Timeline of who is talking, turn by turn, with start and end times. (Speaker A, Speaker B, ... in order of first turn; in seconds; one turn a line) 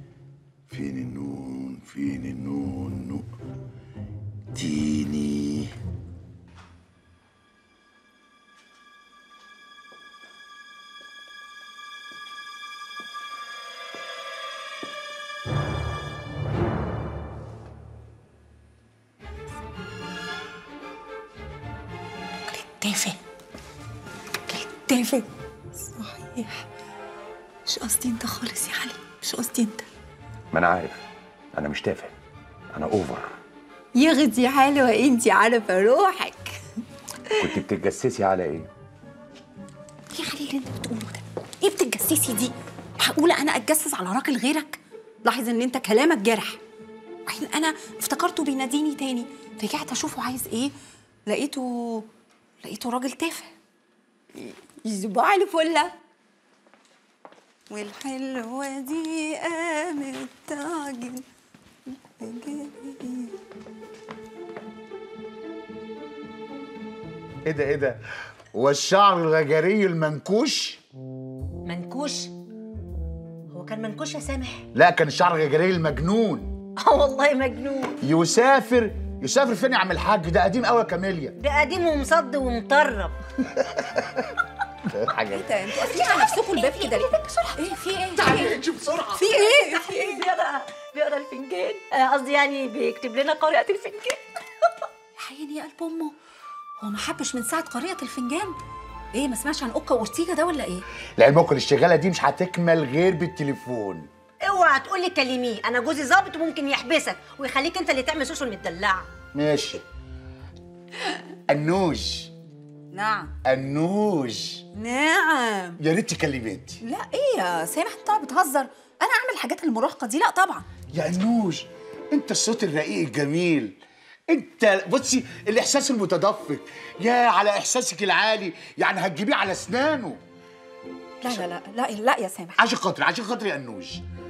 Speaker A: 0.7-3.2
Speaker A: 4.5-5.7
Speaker B: 22.5-23.2
Speaker B: 24.5-25.2
Speaker B: 25.8-26.6
Speaker B: 27.6-29.9
Speaker C: 30.5-31.0
Speaker C: 31.5-32.1
Speaker C: 32.7-33.2
Speaker B: 33.9-36.6
Speaker C: 37.4-38.7
Speaker B: 40.1-46.6
Speaker B: 47.3-50.7
Speaker B: 51.3-52.1
Speaker B: 52.6-53.5
Speaker B: 54.3-55.9
Speaker B: 57.7-61.2
Speaker B: 62.1-63.3
Speaker D: 67.5-68.0
Speaker D: 68.5-70.8
Speaker E: 71.7-72.3
Speaker E: 73.5-74.6
Speaker D: 74.7-76.5
Speaker E: 76.8-77.9
Speaker D: 78.0-81.3
Speaker E: 81.4-83.2
Speaker D: 84.9-85.5
Speaker B: 85.3-88.5
Speaker D: 88.2-89.2
Speaker B: 89.1-90.3
Speaker E: 90.2-94.2
Speaker B: 95.2-96.1
Speaker B: 96.8-98.5
Speaker B: 99.1-100.8
Speaker D: 101.2-104.1
Speaker E: 104.5-109.1
Speaker D: 109.3-109.8
Speaker D: 111.5-112.3
Speaker B: 112.9-113.3
Speaker D: 113.4-114.6
Speaker B: 114.7-115.8
Speaker D: 115.8-116.8
Speaker B: 116.8-120.6
Speaker D: 120.9-130.2
Speaker B: 131.2-132.6
Speaker D: 132.6-134.0